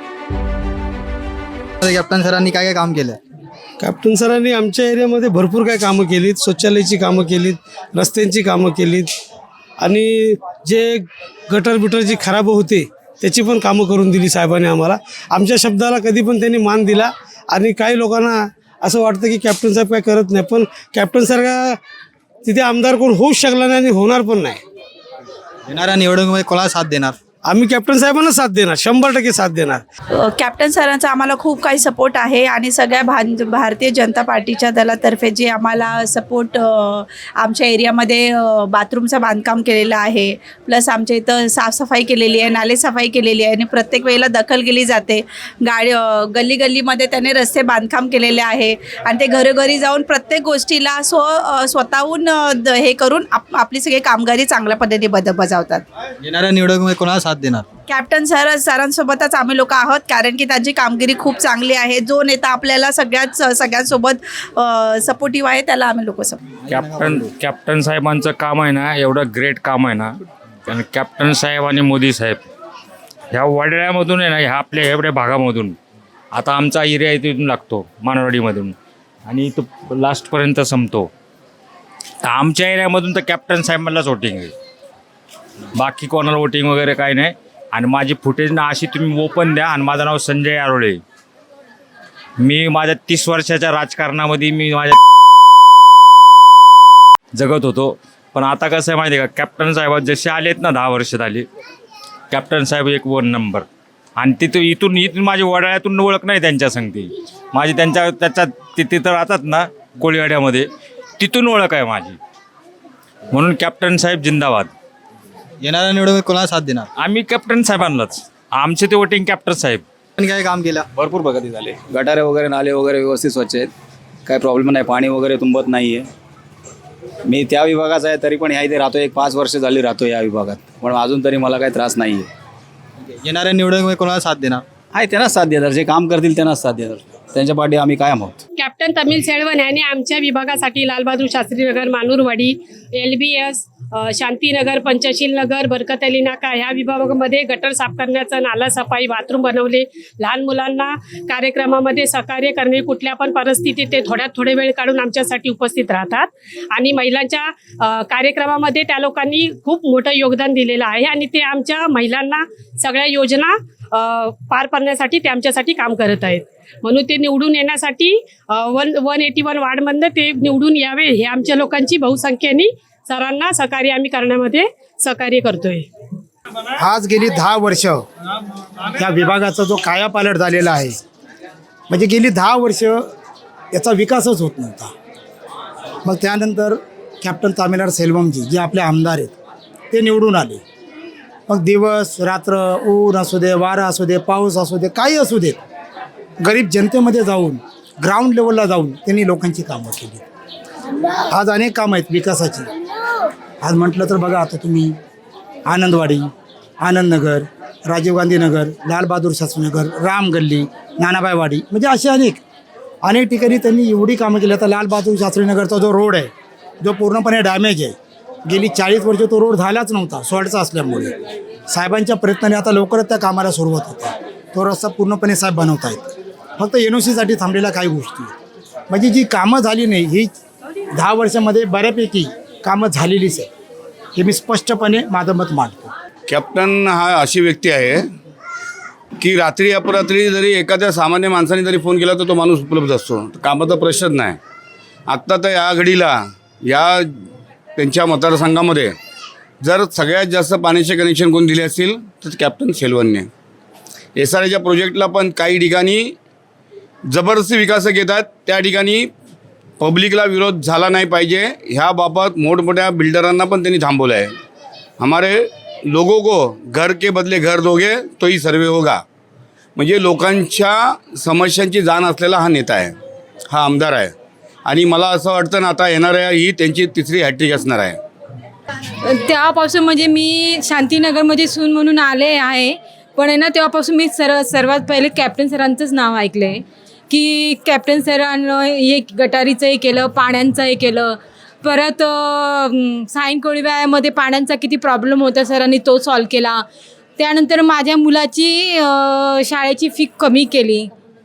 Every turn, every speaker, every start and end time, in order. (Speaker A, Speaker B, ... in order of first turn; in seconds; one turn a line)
Speaker A: 1.8-3.2
Speaker B: 3.8-9.1
Speaker B: 9.8-21.8
Speaker B: 22.4-24.6
Speaker A: 25.7-27.1
Speaker B: 27.4-29.8
Speaker C: 30.2-55.8
Speaker A: 56.2-57.6
Speaker C: 57.9-66.4
Speaker D: 66.7-70.2
Speaker A: 66.7-67.3
Speaker D: 70.7-72.4
Speaker D: 73.3-75.8
Speaker D: 76.3-78.7
Speaker D: 79.2-81.1
Speaker D: 82.2-84.5
Speaker D: 85.7-91.0
Speaker D: 92.4-95.0
Speaker D: 97.3-101.5
Speaker D: 102.3-103.6
Speaker D: 104.2-110.7
Speaker D: 111.2-112.2
Speaker D: 113.3-114.7
Speaker A: 115.6-116.9
Speaker D: 117.0-119.8
Speaker A: 120.2-120.8
Speaker E: 120.9-123.7
Speaker E: 124.2-126.1
Speaker E: 127.2-132.3
Speaker A: 133.2-134.6
Speaker E: 134.9-138.4
Speaker F: 138.6-175.9
Speaker G: 176.8-178.1
Speaker G: 178.8-181.0
Speaker G: 181.9-183.1
Speaker G: 183.7-184.9
Speaker G: 186.0-189.3
Speaker G: 189.9-190.6
Speaker G: 191.5-195.6
Speaker G: 196.4-200.2
Speaker G: 201.3-202.7
Speaker G: 203.6-204.9
Speaker G: 205.7-206.3
Speaker G: 206.8-212.4
Speaker G: 213.0-217.9
Speaker G: 218.5-221.1
Speaker G: 221.7-226.1
Speaker G: 226.6-228.3
Speaker G: 228.9-230.3
Speaker G: 230.9-233.5
Speaker G: 234.2-235.9
Speaker H: 236.3-238.1
Speaker H: 239.2-244.4
Speaker H: 245.1-248.9
Speaker H: 249.6-253.3
Speaker H: 254.2-256.1
Speaker H: 257.1-259.1
Speaker H: 259.8-264.3
Speaker H: 265.0-269.0
Speaker H: 269.8-272.9
Speaker H: 273.5-274.1
Speaker H: 274.6-278.0
Speaker I: 279.0-296.6
Speaker I: 297.2-300.9